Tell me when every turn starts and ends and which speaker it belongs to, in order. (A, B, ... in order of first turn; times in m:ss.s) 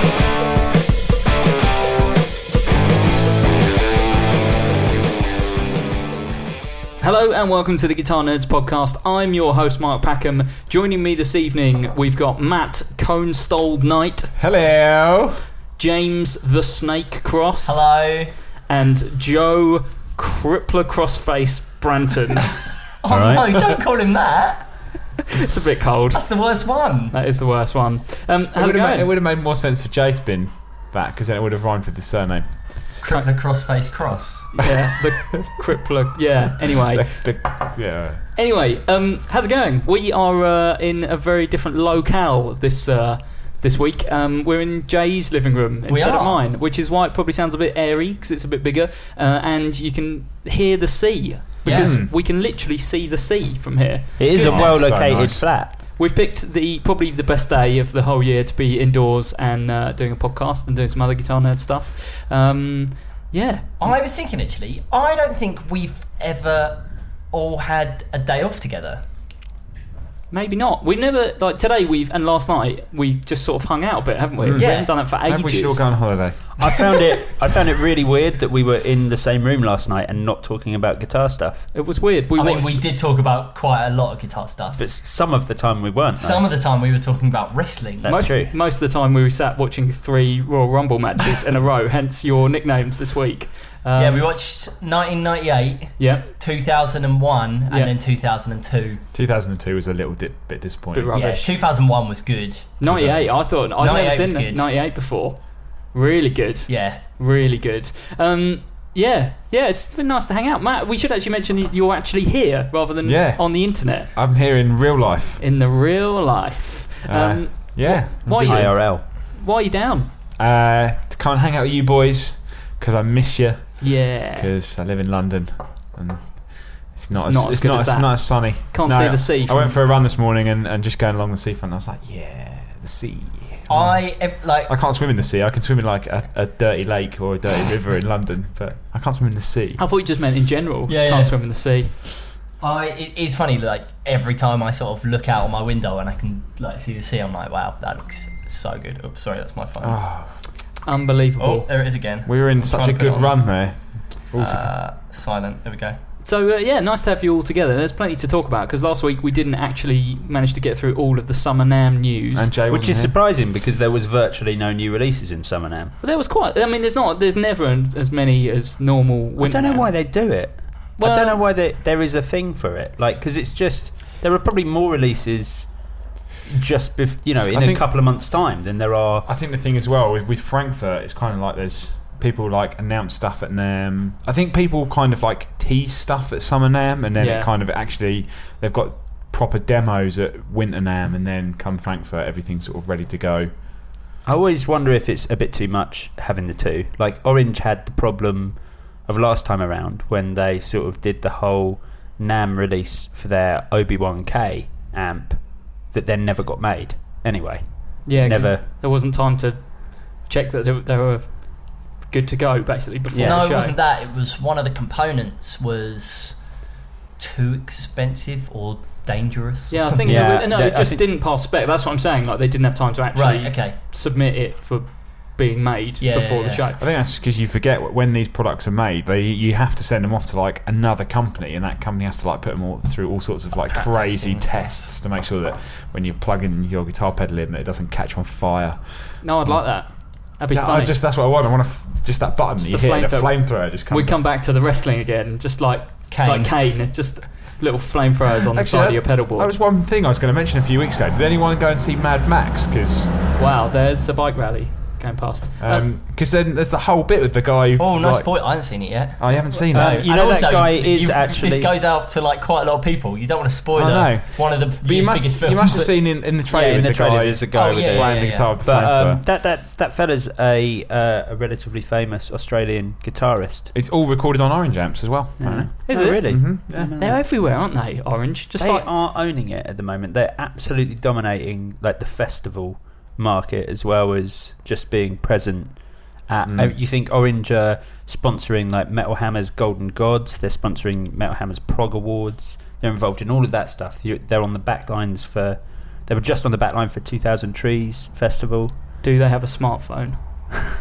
0:07.0-0:14.4 A
0:14.4-0:15.4 B
0:15.8-0:17.9 A
0:17.7-0:18.3 C
0:18.7-0:22.6 A
0:23.0-0:24.7 C
0:23.1-0:23.6 D
0:25.4-0:26.2 A
0:26.1-0:27.2 C
0:27.1-0:29.1 A
0:28.6-0:32.8 B
0:33.0-0:34.5 C
0:34.6-0:37.6 A
0:34.6-0:35.6 B
0:36.9-0:38.2 B
0:38.4-0:55.0 A
0:45.9-0:46.4 C
0:51.6-0:52.0 C
0:51.7-0:52.1 B
0:54.2-0:55.7 D
0:54.3-0:55.4 B
0:54.3-0:54.8 C
0:55.8-1:04.0 A
1:03.8-1:09.0 C
1:10.3-1:15.9 A
1:14.4-1:16.5 B
1:14.5-1:14.9 C
1:16.6-1:21.7 D
1:16.7-1:17.0 C
1:21.7-1:22.8 A
1:22.4-1:24.8 C
1:24.8-1:26.5 D
1:26.2-1:28.2 C
1:28.0-1:28.6 D
1:28.1-1:34.3 A
1:34.0-1:39.0 C
1:36.0-1:36.3 A
1:39.1-1:41.5 B
1:40.9-1:41.4 A
1:41.1-1:42.8 C
1:42.8-1:54.1 A
1:42.8-1:43.4 B
1:43.6-1:44.7 C
1:46.7-1:47.0 C
1:53.0-1:55.4 B
1:55.4-2:00.1 A
1:57.1-1:58.8 B
1:58.4-1:59.0 D
2:00.4-2:19.8 B
2:03.8-2:04.5 A
2:07.1-2:09.8 A
2:13.7-2:14.7 C
2:19.8-2:21.9 A
2:20.9-2:21.4 C
2:22.6-2:30.0 C
2:29.8-2:30.4 B
2:30.8-2:31.7 A
2:31.4-2:36.0 C
2:32.3-2:34.7 B
2:36.2-2:42.5 A
2:42.3-2:43.1 B
2:42.7-2:46.0 D
2:46.0-2:50.0 A
2:49.4-2:55.8 D
2:51.0-2:51.4 A
2:56.5-2:59.3 D
2:57.5-2:57.8 B
2:59.3-3:13.5 B
3:07.2-3:07.5 A
3:14.2-3:28.6 D
3:28.0-3:33.8 A
3:33.1-3:33.5 D
3:33.2-3:36.4 C
3:37.2-3:40.4 C
3:39.7-3:46.8 A
3:40.0-3:41.0 D
3:43.1-3:43.8 C
3:46.0-3:46.7 C
3:46.8-4:04.2 B
3:53.7-3:54.8 C
3:59.2-4:01.0 A
4:02.6-4:09.5 A
4:06.1-4:06.6 C
4:08.5-4:13.3 B
4:13.4-4:15.9 A
4:15.6-4:18.6 B
4:17.8-4:25.9 C
4:19.2-4:20.1 B
4:19.7-4:21.7 D
4:23.8-4:29.2 B
4:26.4-4:33.7 D
4:27.5-4:28.5 C
4:33.7-4:36.9 B
4:35.4-4:37.2 D
4:35.9-4:38.9 A
4:38.6-4:58.7 D
4:46.4-4:46.8 B
4:59.0-5:00.5 A